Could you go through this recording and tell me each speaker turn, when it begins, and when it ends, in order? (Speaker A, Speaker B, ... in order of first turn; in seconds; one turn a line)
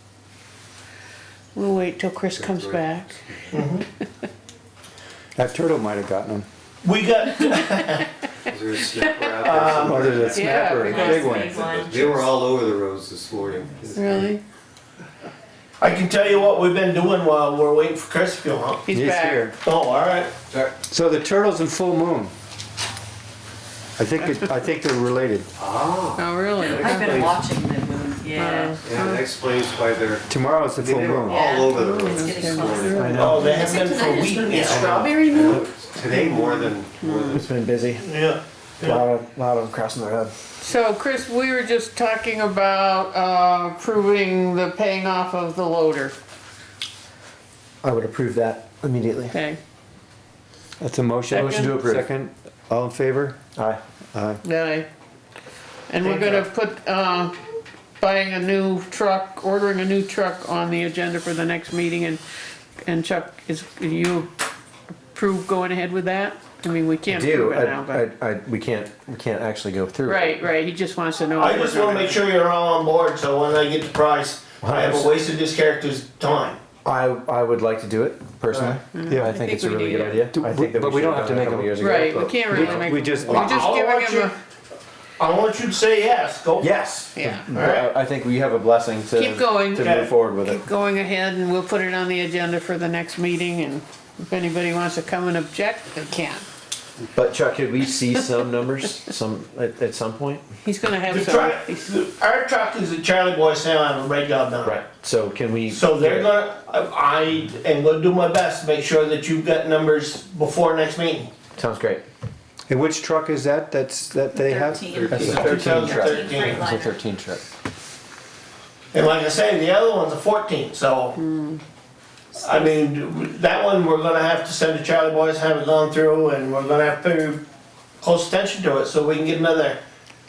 Speaker A: 1.5-3.2
Speaker B: 2.3-3.1
Speaker C: 3.5-3.8
Speaker D: 5.4-6.5
Speaker C: 6.8-8.1
Speaker B: 8.5-14.3
Speaker C: 9.4-10.2
Speaker D: 9.6-11.6
Speaker A: 10.3-11.4
Speaker E: 10.8-12.3
Speaker A: 13.9-14.4
Speaker C: 15.8-18.8
Speaker A: 18.9-19.5
Speaker D: 18.9-19.5
Speaker C: 19.6-20.3
Speaker D: 20.9-22.3
Speaker D: 24.0-25.5
Speaker B: 25.6-27.4
Speaker A: 26.1-27.2
Speaker E: 26.6-28.8
Speaker A: 28.3-29.3
Speaker B: 28.8-33.5
Speaker D: 30.3-31.4
Speaker E: 31.3-34.8
Speaker A: 31.3-33.7
Speaker F: 32.9-33.3
Speaker D: 33.0-33.5
Speaker C: 33.1-35.0
Speaker A: 34.5-37.4
Speaker B: 34.5-37.5
Speaker F: 37.3-38.1
Speaker C: 38.0-39.0
Speaker F: 38.8-40.3
Speaker A: 40.6-46.1
Speaker F: 47.8-49.3
Speaker A: 49.3-49.6
Speaker D: 50.8-53.4
Speaker A: 51.3-51.7
Speaker F: 51.3-52.0
Speaker D: 54.1-54.4
Speaker A: 54.4-54.9
Speaker A: 55.9-57.4
Speaker F: 56.0-56.5
Speaker A: 58.0-62.2
Speaker A: 62.8-64.3
Speaker A: 65.1-68.1
Speaker F: 67.0-70.5
Speaker A: 70.0-72.2
Speaker C: 71.3-76.6
Speaker F: 74.6-75.1
Speaker F: 76.8-82.9
Speaker D: 78.5-79.3
Speaker A: 78.9-80.2
Speaker D: 80.2-83.7
Speaker A: 81.8-84.3
Speaker C: 83.2-84.3
Speaker C: 85.2-86.7
Speaker F: 86.6-90.6
Speaker A: 87.1-87.5
Speaker C: 87.5-87.9
Speaker A: 89.1-96.4
Speaker C: 89.8-90.1
Speaker F: 97.1-100.5
Speaker A: 100.6-101.9
Speaker C: 101.1-104.8
Speaker F: 104.6-106.3
Speaker C: 105.7-111.3
Speaker F: 111.5-112.0
Speaker D: 112.7-116.0
Speaker E: 114.3-117.0
Speaker F: 114.9-117.4
Speaker C: 115.1-116.6
Speaker C: 118.9-121.2
Speaker A: 121.2-121.6
Speaker C: 122.3-127.4
Speaker C: 128.0-129.8